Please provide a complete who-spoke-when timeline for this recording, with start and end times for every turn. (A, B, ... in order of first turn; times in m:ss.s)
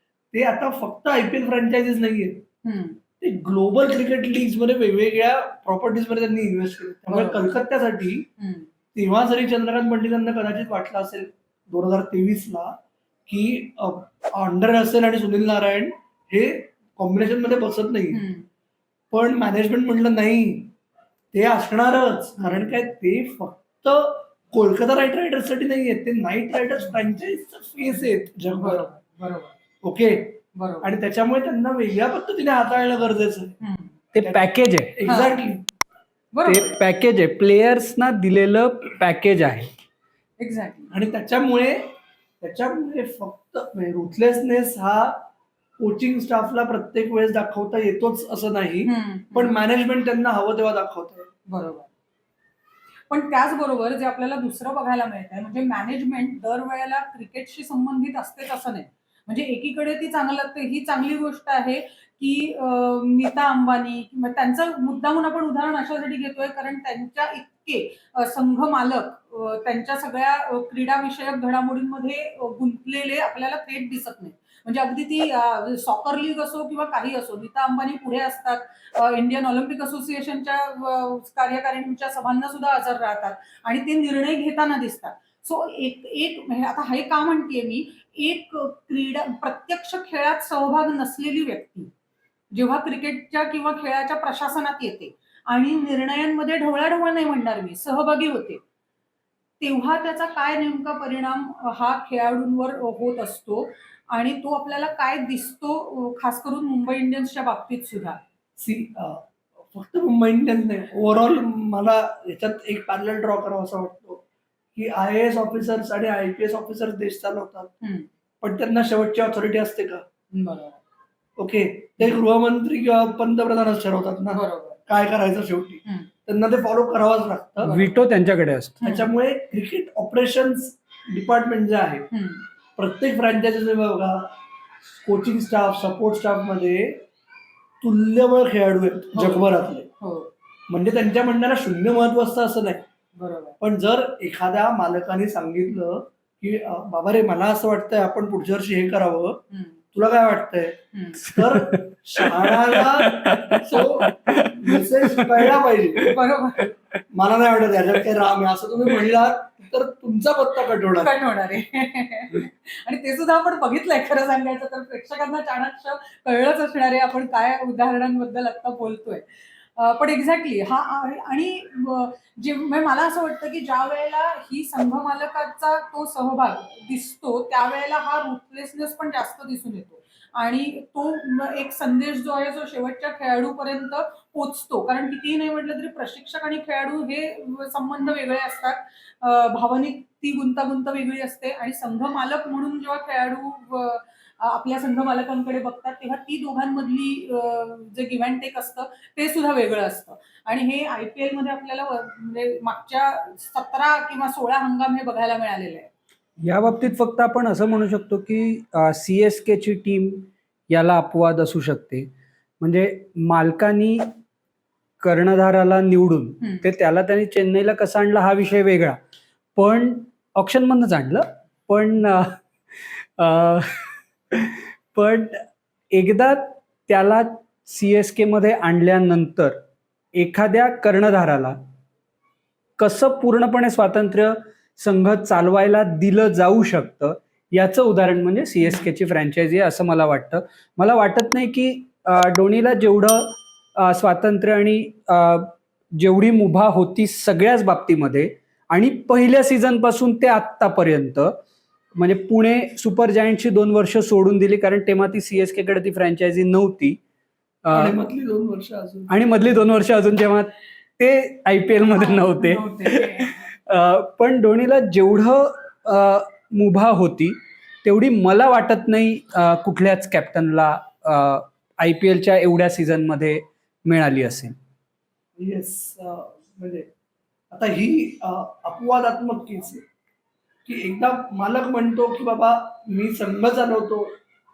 0:00.3-0:02.5 A
0:02.6-0:03.0 B
0:03.2-0:08.3 A
0:07.1-0:07.5 B
0:08.4-0:08.7 B
0:09.0-0:18.2 A
0:18.1-0:18.5 B
0:19.1-0:20.7 A
0:21.3-0:28.9 A
0:22.4-0:22.7 B
0:28.6-0:29.5 B
0:29.8-0:33.6 A
0:30.6-0:30.9 B
0:33.6-0:33.9 B
0:34.2-0:35.0 C
0:34.2-0:35.7 A
0:35.1-0:35.4 B
0:36.3-0:36.8 B
0:36.4-0:39.7 C
0:40.4-0:40.9 B
0:40.9-0:45.3 A
0:45.8-0:51.3 A
0:48.8-0:49.6 B
0:51.5-0:51.9 B
0:53.1-1:31.9 B
1:32.5-1:38.6 B
1:39.6-1:48.2 B
1:48.6-1:54.2 A
1:54.8-1:57.7 A
1:57.8-1:58.1 B
1:58.4-2:00.0 A
2:00.3-2:00.8 B
2:01.4-2:07.7 A
2:04.3-2:04.8 B
2:07.6-2:08.0 B
2:07.7-2:08.8 C
2:08.8-2:09.1 B
2:08.8-2:12.1 A
2:12.1-2:12.4 B
2:12.8-2:14.4 A
2:15.0-2:17.0 A
2:17.8-2:19.9 A
2:19.2-2:19.5 B
2:20.0-2:20.3 B
2:20.7-2:22.9 A
2:23.2-2:23.6 B
2:23.6-2:29.4 A
2:29.9-2:36.2 A
2:30.9-2:31.3 B
2:31.4-2:35.4 C
2:36.0-2:36.7 B
2:37.1-2:41.1 A
2:41.0-2:49.2 B
2:49.8-3:25.9 B
3:26.4-3:34.1 C
3:35.0-3:39.0 C
3:36.4-3:36.7 B
3:39.6-3:49.6 C
3:50.1-3:51.6 C
3:52.8-4:11.4 C
4:12.0-4:17.0 C
4:17.6-4:18.0 C
4:17.7-4:19.1 A
4:19.1-4:34.6 C
4:21.8-4:23.4 B
4:35.4-4:36.9 A
4:37.5-4:39.8 A
4:40.7-4:44.1 A